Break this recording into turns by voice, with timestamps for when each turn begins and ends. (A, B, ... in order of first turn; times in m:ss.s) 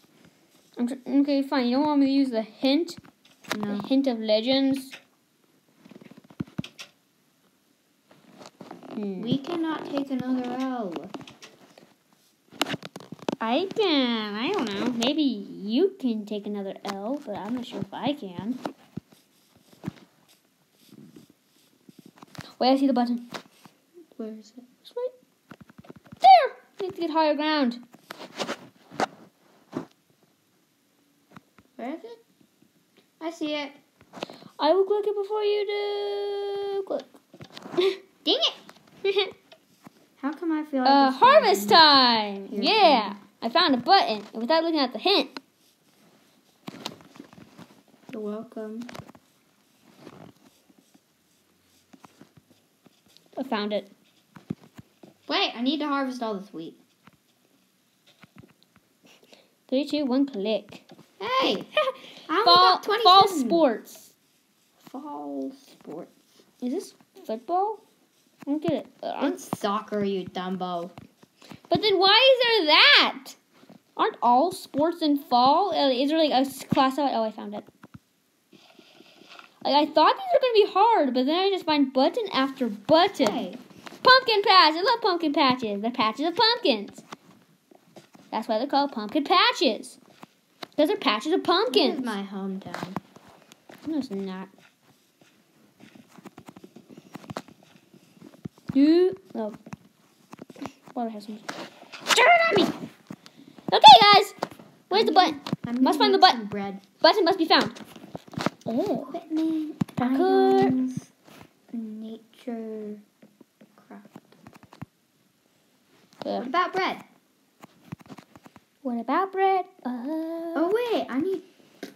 0:00.8-0:03.0 A
0:03.5-0:03.9 B
0:03.7-0:05.0 A
0:09.0-0:09.4 A
0:09.2-0:11.1 B
0:13.4-0:18.6 A
0:22.6-0:23.3 A
0:24.2-0:24.7 B
0:24.8-0:25.1 A
0:26.2-0:27.8 A
0:31.8-0:32.2 B
0:33.2-0:33.8 B
0:34.6-0:37.1 A
0:38.2-0:38.6 B
0:39.0-0:39.3 A
0:40.2-0:41.8 B
0:40.8-0:45.4 A
0:42.5-0:43.2 B
0:48.1-0:48.9 B
0:53.4-0:53.9 A
0:55.3-0:56.8 B
0:59.7-1:00.8 A
1:01.2-1:01.7 B
1:01.8-1:04.1 A
1:02.3-1:03.7 B
1:04.8-1:06.1 B
1:06.6-1:07.8 A
1:08.5-1:09.4 A
1:09.2-1:10.9 B
1:11.7-1:13.4 A
1:14.0-1:17.7 A
1:19.6-1:23.4 A
1:23.2-1:23.6 B
1:24.0-1:27.0 A
1:28.3-1:30.0 A
1:30.8-1:32.1 A
1:31.7-1:33.0 B
1:33.8-1:34.5 A
1:38.7-1:39.6 A
1:40.9-1:41.5 A
1:42.1-1:42.7 A
1:43.7-1:44.4 A
1:44.9-1:46.4 A
1:44.9-1:46.8 B
1:47.0-1:47.8 A
1:48.7-1:49.1 A
1:49.0-1:51.1 B
1:50.0-1:50.8 A
1:51.7-1:53.0 B
1:53.8-1:54.3 B
1:56.2-1:56.5 A
1:56.4-1:57.0 B
1:58.8-2:00.7 A
2:00.6-2:01.5 B